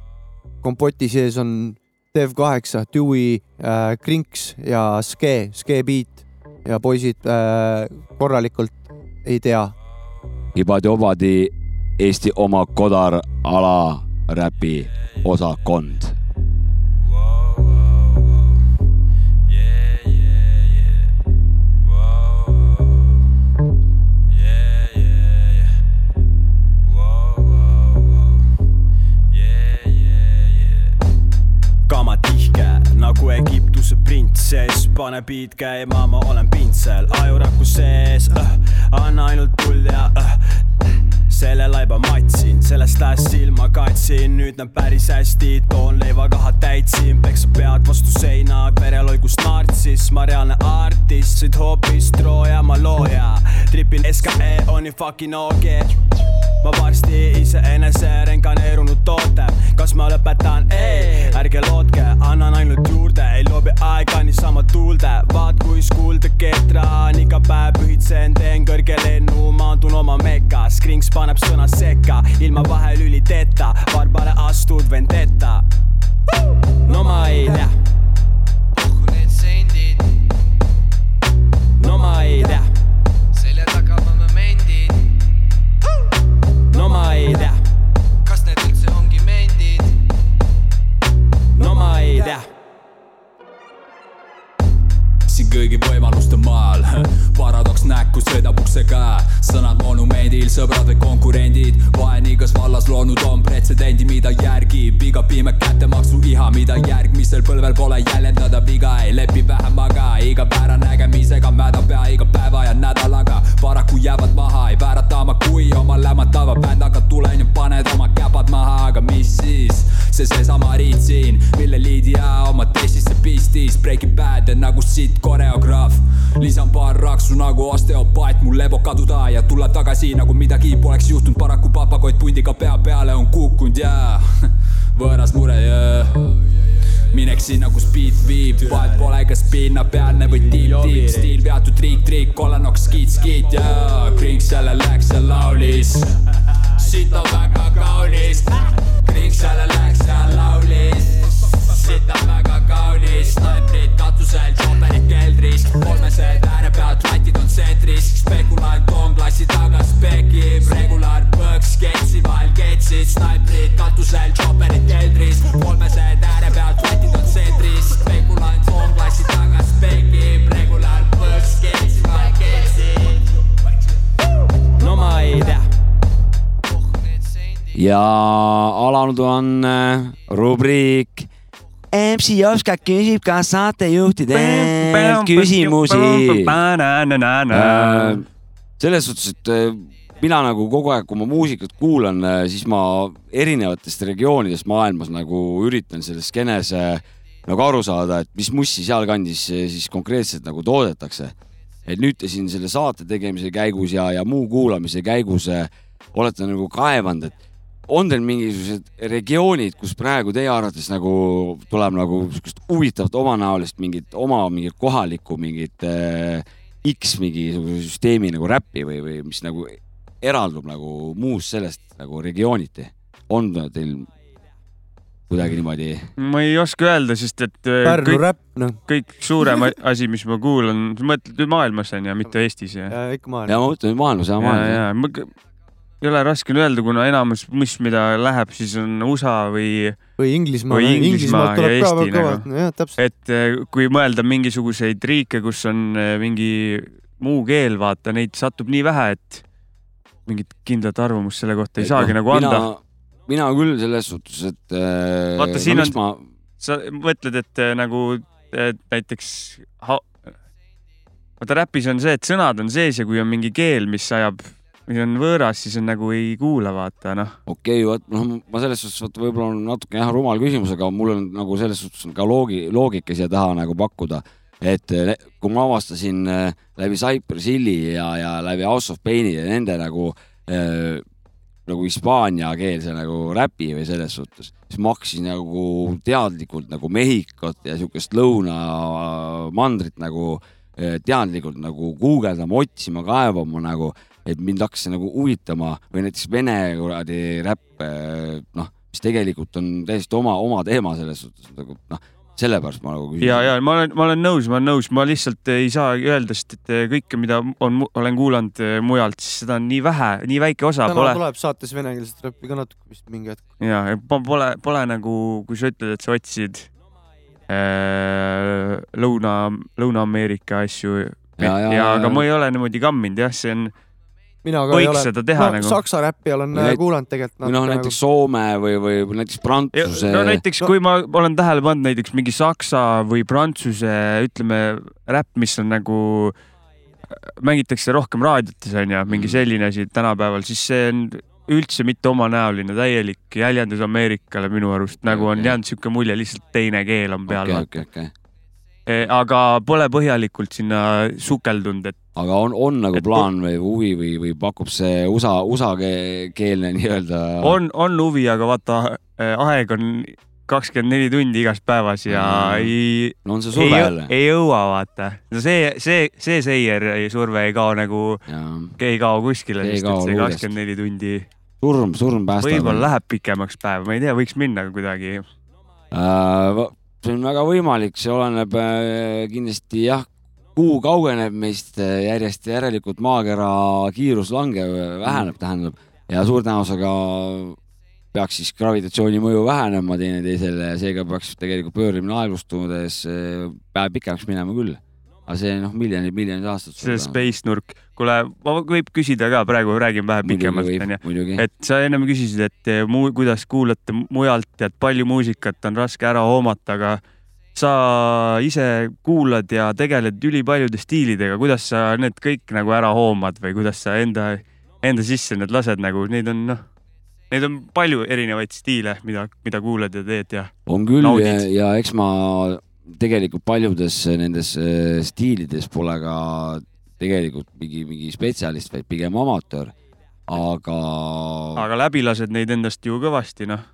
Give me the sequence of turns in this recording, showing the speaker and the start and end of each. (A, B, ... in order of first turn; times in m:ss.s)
0:00.6-0:09.7 A
0:10.6-0:16.1 B
0:31.9-0:40.4 C
0:41.3-0:55.9 C
0:56.6-1:15.6 C
1:00.7-1:01.4 D
1:16.8-1:17.7 C
1:16.9-1:17.4 D
1:18.7-1:20.1 D
1:21.8-1:22.7 C
1:23.3-1:25.0 D
1:26.7-1:27.6 C
1:26.7-1:27.5 D
1:28.2-1:30.0 D
1:31.6-1:32.4 C
1:31.6-1:32.4 D
1:31.6-1:32.4 E
1:35.3-2:14.3 E
2:15.0-2:16.2 E
2:17.1-2:26.1 E
2:18.5-2:19.1 C
2:20.3-2:21.4 C
2:26.8-2:53.2 E
2:52.2-2:52.5 D
2:54.8-2:55.6 C
2:54.8-2:55.2 D
2:56.7-2:57.9 D
2:57.7-3:01.3 B
3:01.9-3:06.6 B
3:04.3-3:08.2 F
3:07.5-3:08.3 B
3:08.8-3:21.4 B
3:21.9-3:27.4 B
3:27.9-3:44.1 B
3:45.3-3:46.1 B
3:46.2-3:48.2 F
3:47.8-3:48.8 A
3:48.9-3:53.0 F
3:52.9-3:53.6 A
3:53.4-3:54.8 B
3:54.4-3:55.3 F
3:56.0-4:00.0 F
4:00.2-4:03.0 A
4:00.7-4:02.4 F
4:03.0-4:09.4 F
4:10.3-4:12.7 F
4:11.8-4:16.2 B
4:15.4-4:16.0 F
4:16.6-4:20.1 F
4:21.4-4:27.4 F
4:27.5-4:41.0 B
4:41.7-5:03.5 B
5:03.2-5:11.2 F
5:10.9-5:13.4 A
5:13.6-5:16.7 F
5:17.5-5:23.7 F
5:21.4-5:22.2 B
5:24.4-5:28.0 A
5:24.7-5:25.8 F
5:26.5-5:26.8 B
5:27.4-5:30.4 B
5:29.7-5:36.3 F
5:37.4-5:47.7 F
5:39.1-5:39.4 B
5:45.0-5:45.6 B
5:47.3-5:48.1 B
5:48.9-5:52.0 F
5:52.2-5:57.6 B
5:52.9-5:53.3 F
5:57.4-6:08.2 F
6:02.1-6:02.7 B
6:03.2-6:04.1 B
6:08.3-6:08.7 B
6:08.8-6:11.3 F
6:09.6-6:10.5 B
6:11.6-6:12.9 B
6:12.4-6:15.3 F
6:15.9-6:27.6 B
6:28.1-6:37.3 B
6:36.8-6:47.0 F
6:40.2-6:41.4 B
6:47.6-6:56.6 F
6:57.3-7:01.4 F
7:00.7-7:09.7 B
7:10.3-7:11.6 B
7:11.6-7:13.6 F